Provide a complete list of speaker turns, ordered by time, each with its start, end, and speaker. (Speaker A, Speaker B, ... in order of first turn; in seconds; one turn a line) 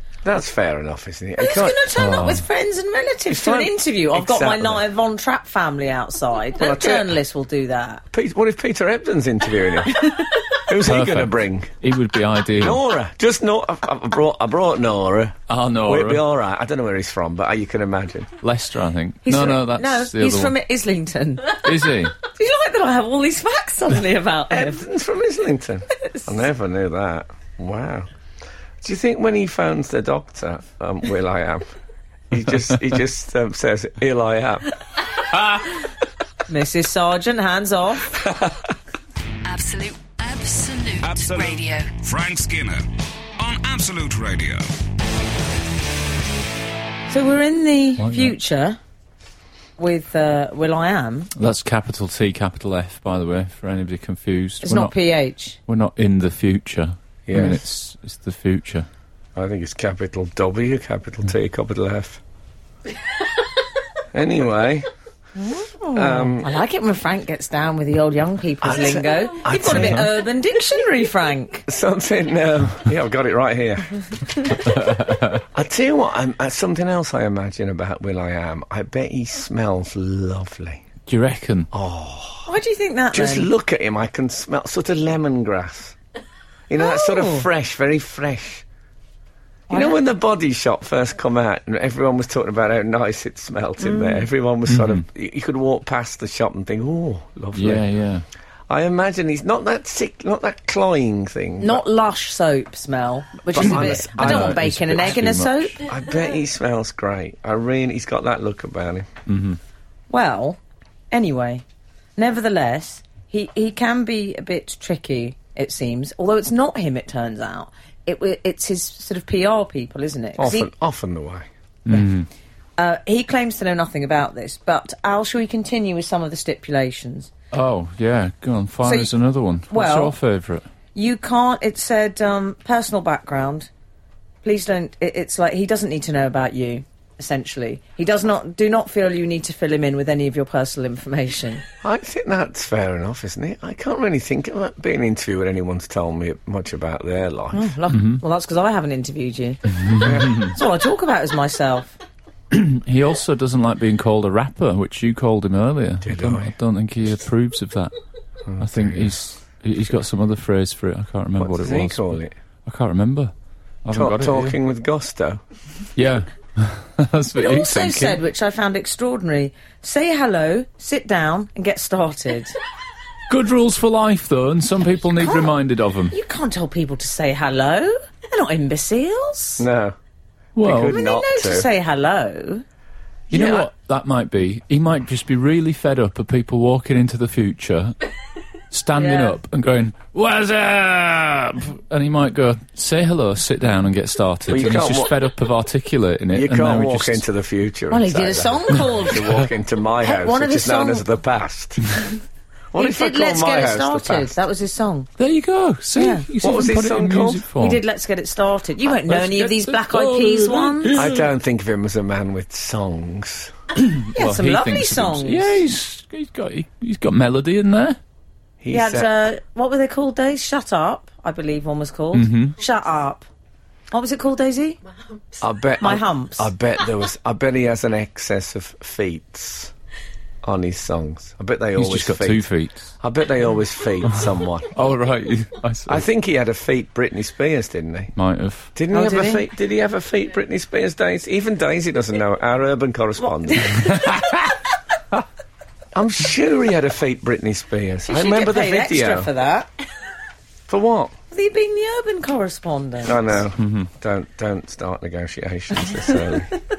Speaker A: 0.2-1.9
Speaker B: 1.4-8.0
Speaker C: 1.9-2.4
Speaker A: 3.3-4.8
Speaker A: 6.6-7.2
Speaker A: 8.1-11.7
Speaker C: 10.8-12.8
Speaker A: 12.6-18.3
Speaker C: 15.5-16.2
Speaker C: 18.4-20.5
Speaker B: 19.2-24.8
Speaker C: 21.6-22.2
Speaker A: 24.5-28.1
Speaker B: 26.0-26.3
Speaker A: 28.8-31.7
Speaker A: 32.3-34.6
Speaker B: 36.5-38.1
Speaker A: 38.2-38.5
Speaker D: 39.4-41.9
Speaker E: 41.0-42.9
Speaker E: 43.4-44.7
Speaker B: 47.1-48.8
Speaker C: 48.0-48.3
Speaker B: 49.8-51.3
Speaker C: 51.3-54.9
Speaker B: 54.6-55.6
Speaker C: 55.6-58.9
Speaker A: 57.3-57.6
Speaker A: 59.3-62.2
Speaker A: 64.1-64.9
Speaker B: 65.3-71.7
Speaker A: 65.9-66.5
Speaker A: 68.6-70.1
Speaker C: 69.7-70.0
Speaker A: 71.7-74.0
Speaker C: 74.7-75.4
Speaker A: 75.5-80.8
Speaker C: 81.1-81.7
Speaker A: 81.7-82.5
Speaker B: 82.5-83.5
Speaker A: 83.1-86.0
Speaker A: 86.7-88.6
Speaker B: 86.8-87.5
Speaker B: 89.7-90.0
Speaker A: 89.7-97.8
Speaker B: 93.8-94.2
Speaker C: 94.7-95.0
Speaker C: 97.5-98.2
Speaker A: 98.7-101.8
Speaker B: 101.6-105.8
Speaker A: 103.5-104.7
Speaker C: 103.6-105.8
Speaker A: 105.8-109.1
Speaker C: 109.3-109.6
Speaker B: 110.1-110.6
Speaker B: 111.1-111.6
Speaker B: 112.2-120.7
Speaker A: 120.4-121.5
Speaker C: 121.8-122.3
Speaker B: 122.8-127.3
Speaker C: 127.5-130.7
Speaker B: 128.8-129.1
Speaker B: 129.7-130.2
Speaker B: 130.9-133.7
Speaker B: 134.4-141.6
Speaker A: 141.8-147.7
Speaker B: 147.5-149.6
Speaker C: 147.9-148.2
Speaker C: 149.7-150.5
Speaker A: 150.0-150.5
Speaker B: 150.3-152.0
Speaker C: 152.5-157.9
Speaker A: 156.0-156.5
Speaker A: 158.4-159.1
Speaker C: 158.6-163.3
Speaker A: 161.4-162.3
Speaker C: 163.8-164.6
Speaker A: 163.9-165.4
Speaker C: 165.9-168.2
Speaker B: 167.4-172.5
Speaker C: 173.3-176.1
Speaker B: 175.2-175.6
Speaker B: 176.1-179.7
Speaker A: 179.6-179.9
Speaker C: 180.6-180.9
Speaker A: 180.6-181.7
Speaker B: 180.9-182.6
Speaker A: 183.3-183.7
Speaker C: 183.3-187.9
Speaker C: 188.7-197.2
Speaker B: 188.9-189.4
Speaker A: 194.5-195.2
Speaker A: 196.3-201.8
Speaker B: 197.9-199.2
Speaker C: 198.7-199.4
Speaker B: 200.0-201.0
Speaker A: 202.7-204.3
Speaker B: 202.8-205.1
Speaker C: 205.2-207.8
Speaker B: 205.9-206.2
Speaker A: 206.4-207.5
Speaker B: 207.6-211.0
Speaker C: 208.9-211.3
Speaker A: 210.9-213.5
Speaker C: 213.8-218.0
Speaker B: 214.1-215.6
Speaker A: 218.6-219.1
Speaker B: 218.7-223.3
Speaker C: 222.1-222.6
Speaker B: 223.9-224.8
Speaker A: 225.4-229.7
Speaker B: 225.8-226.5
Speaker A: 230.4-232.4
Speaker C: 231.8-232.9
Speaker A: 233.0-234.8
Speaker C: 234.7-236.0
Speaker A: 235.9-238.1
Speaker C: 238.2-238.7
Speaker A: 238.7-243.9
Speaker B: 238.9-239.4
Speaker B: 243.4-244.2
Speaker C: 243.9-244.3
Speaker A: 245.9-249.3
Speaker B: 248.1-249.7
Speaker A: 250.7-251.2
Speaker B: 251.3-253.4
Speaker A: 253.0-256.5
Speaker C: 253.6-253.9